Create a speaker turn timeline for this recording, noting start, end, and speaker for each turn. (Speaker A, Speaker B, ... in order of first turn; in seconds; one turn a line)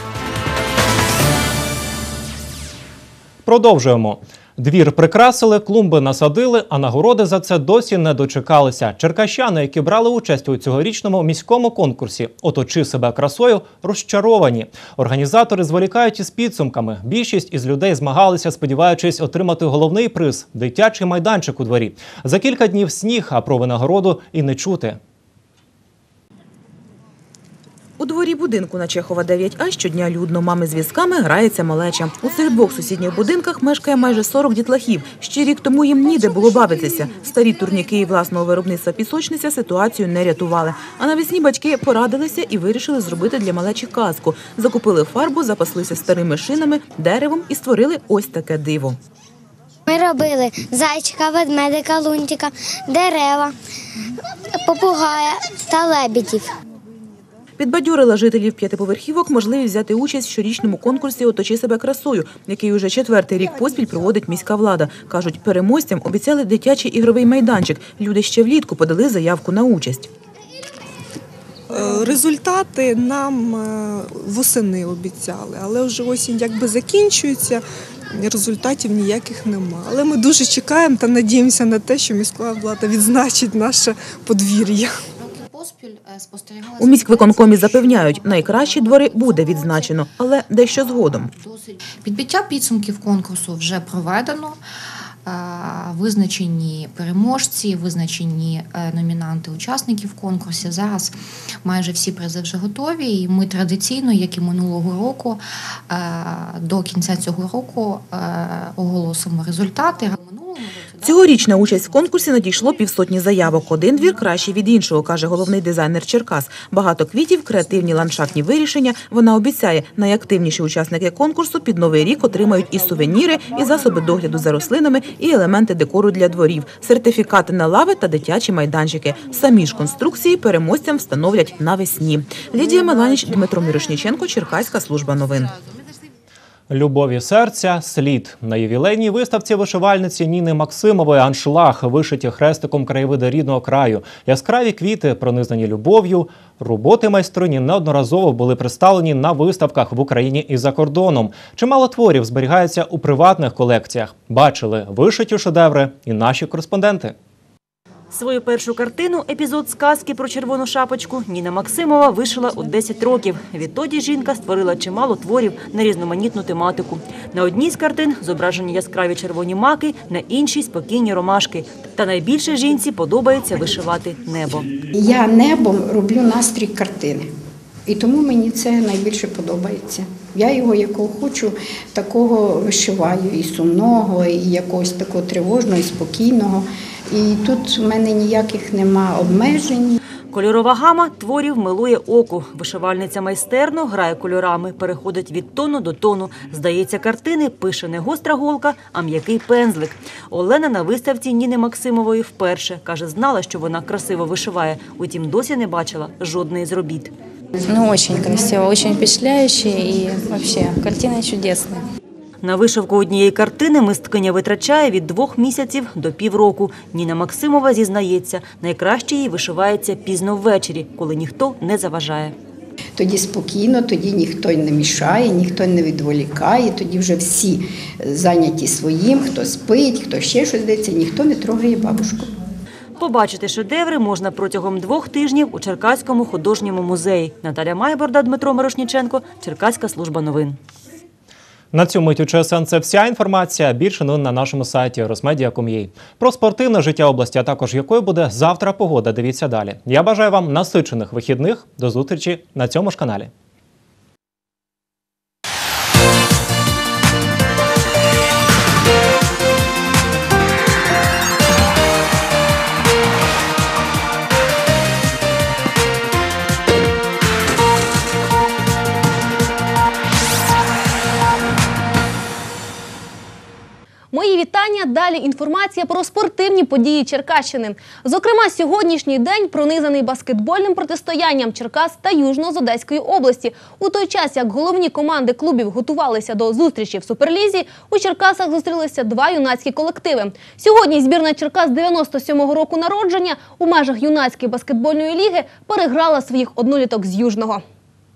Speaker A: 3.5-25.0
Speaker B: 28.0-49.0
Speaker C: 49.9-53.5
Speaker C: 54.6-56.5
Speaker B: 57.6-70.1
Speaker D: 71.7-85.0
Speaker E: 85.3-86.8
Speaker B: 86.8-91.3
Speaker E: 91.4-94.6
Speaker E: 95.3-110.9
Speaker B: 111.0-135.5
Speaker A: 136.7-157.2
Speaker F: 158.1-174.7
Speaker G: 174.9-177.3
Speaker G: 177.9-190.0
Speaker F: 190.3-207.1
Speaker H: 207.7-211.8
Speaker F: 212.4-222.3
Speaker G: 223.0-232.3
Speaker F: 233.0-240.6
Speaker A: 241.7-253.3
Speaker I: 274.1-297.6